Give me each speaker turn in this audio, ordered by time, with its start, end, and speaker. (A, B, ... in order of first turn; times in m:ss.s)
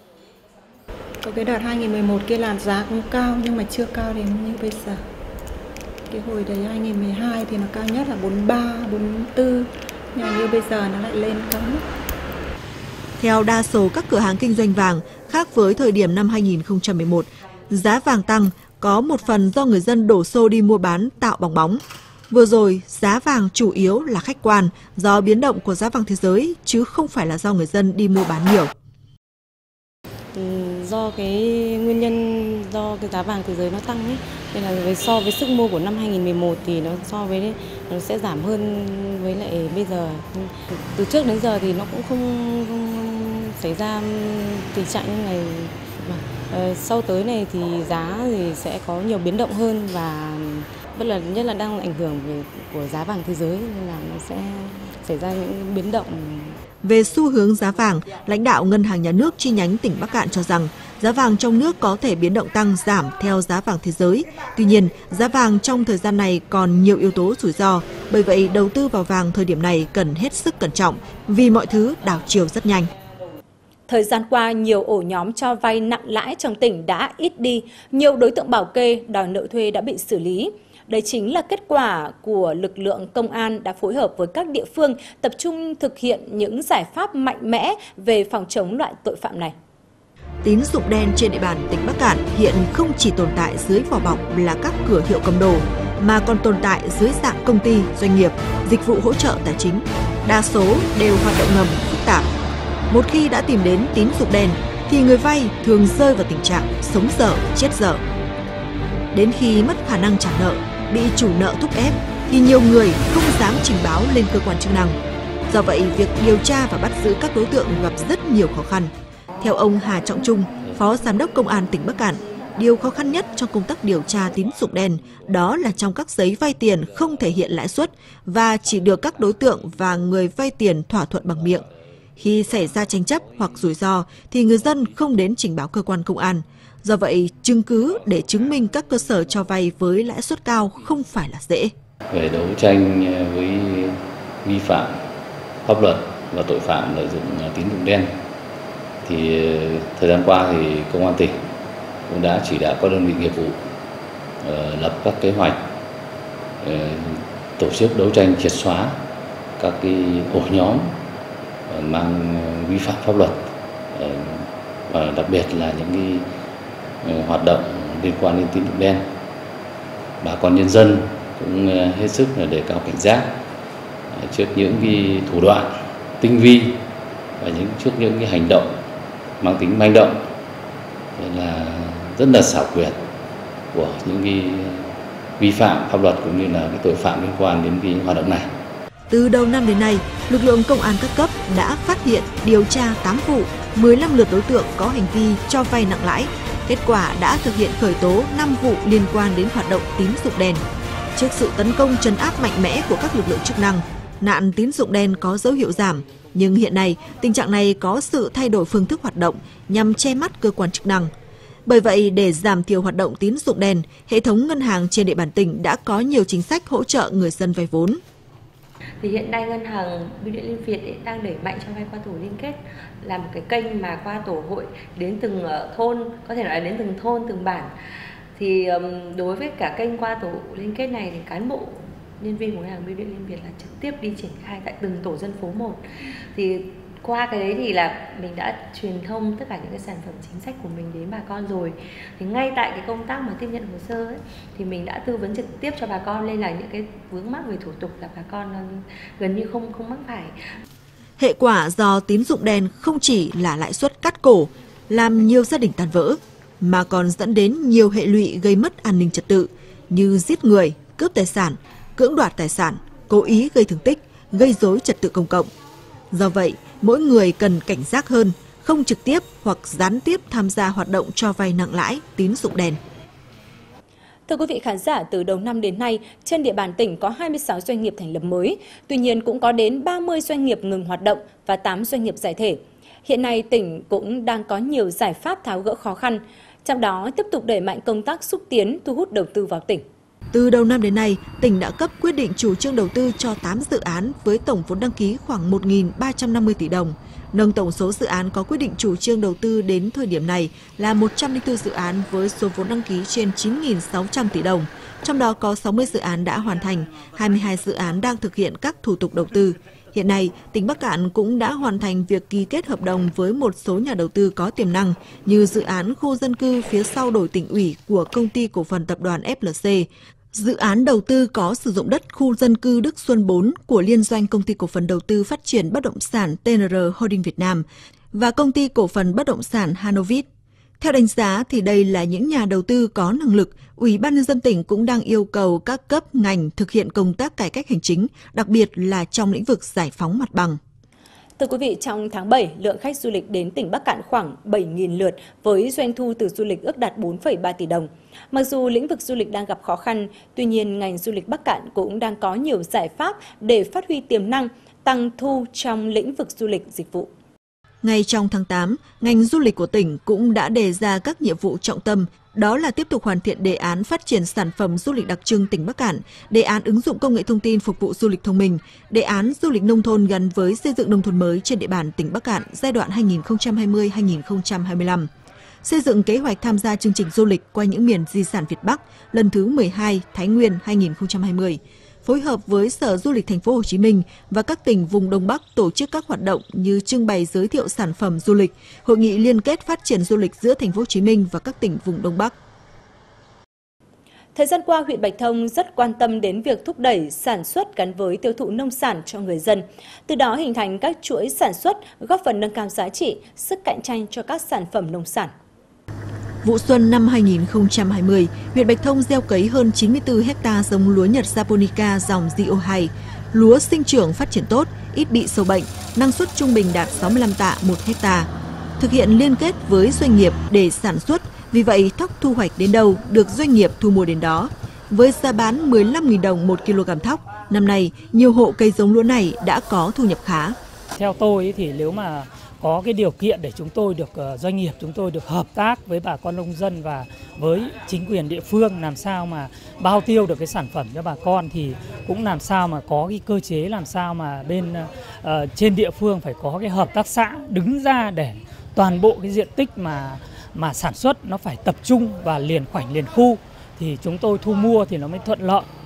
0:01.2-0:05.0 A
0:06.1-0:11.8 A
0:13.2-0:28.7 B
0:30.3-0:56.6 C
0:56.8-1:12.9 B
1:13.9-1:29.5 D
1:30.4-1:42.3 B
1:42.9-1:48.0 B
1:49.1-1:55.0 B
1:55.5-2:11.6 B
2:12.2-2:21.7 B
2:22.1-2:25.0 E
2:25.6-2:28.1 E
2:29.0-2:31.4 E
2:32.1-2:33.6 E
2:34.4-2:35.6 E
2:36.6-2:39.0 E
2:39.6-2:41.0 E
2:41.7-2:46.3 E
2:47.0-2:49.0 E
2:50.2-2:53.3 E
2:54.1-2:56.8 E
2:57.4-2:58.7 E
2:59.4-3:00.2 E
3:01.2-3:03.0 E
3:03.7-3:08.5 E
3:09.1-3:20.6 B
3:21.2-3:31.1 B
3:31.7-3:38.0 B
3:39.0-3:47.7 F
3:48.4-4:10.3 F
4:11.2-4:25.5 B
4:26.1-4:32.8 B
4:34.3-4:49.8 D
4:50.3-5:30.3 B
5:30.8-5:40.6 B
5:41.4-5:57.1 D
5:57.8-6:15.1 B
6:15.6-6:32.3 B
6:34.4-6:45.3 D
6:46.4-6:58.3 B
6:58.8-7:10.6 B
7:11.0-7:35.7 G